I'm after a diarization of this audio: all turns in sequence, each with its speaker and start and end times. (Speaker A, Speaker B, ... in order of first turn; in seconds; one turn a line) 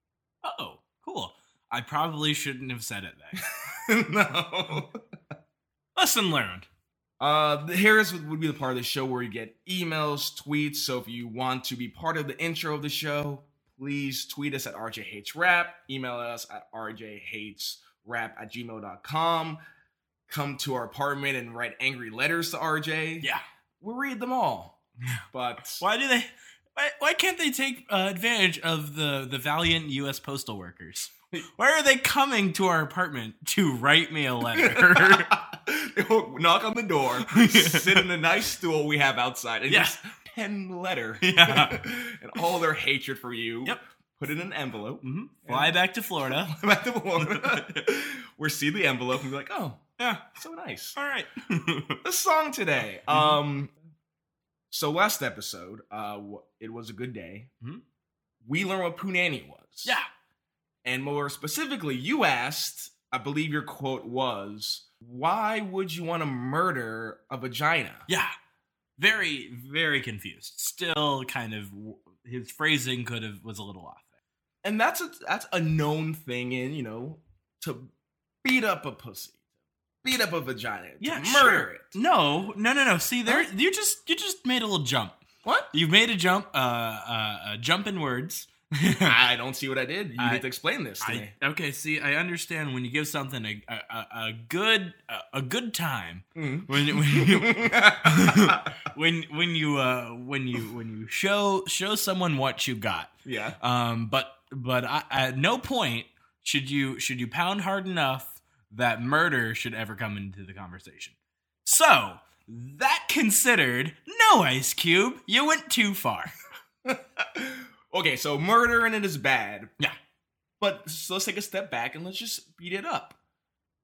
Speaker A: 0.4-3.4
Speaker B: 3.4-5.0
Speaker A: 6.0-6.7
Speaker B: 7.2-19.6
Speaker B: 20.3-23.3
Speaker B: 23.8-24.8
Speaker B: 25.3-25.8
Speaker A: 25.8-35.3
Speaker B: 34.5-45.7
Speaker A: 37.3-38.0
Speaker A: 39.7-40.0
Speaker A: 41.2-41.8
Speaker A: 45.0-46.5
Speaker B: 46.2-49.8
Speaker A: 47.2-47.8
Speaker A: 50.0-50.3
Speaker B: 50.3-51.0
Speaker A: 51.0-52.0
Speaker B: 52.0-53.7
Speaker A: 53.1-53.4
Speaker B: 54.7-57.5
Speaker B: 58.4-59.9
Speaker B: 60.8-68.1
Speaker A: 69.0-74.0
Speaker B: 74.6-77.9
Speaker B: 78.4-79.4
Speaker B: 80.0-82.0
Speaker A: 81.0-85.2
Speaker B: 85.4-85.7
Speaker A: 85.7-89.2
Speaker B: 89.0-91.3
Speaker A: 90.2-90.5
Speaker A: 91.0-116.3
Speaker B: 96.4-98.7
Speaker B: 103.2-103.6
Speaker B: 116.8-119.7
Speaker B: 120.6-123.2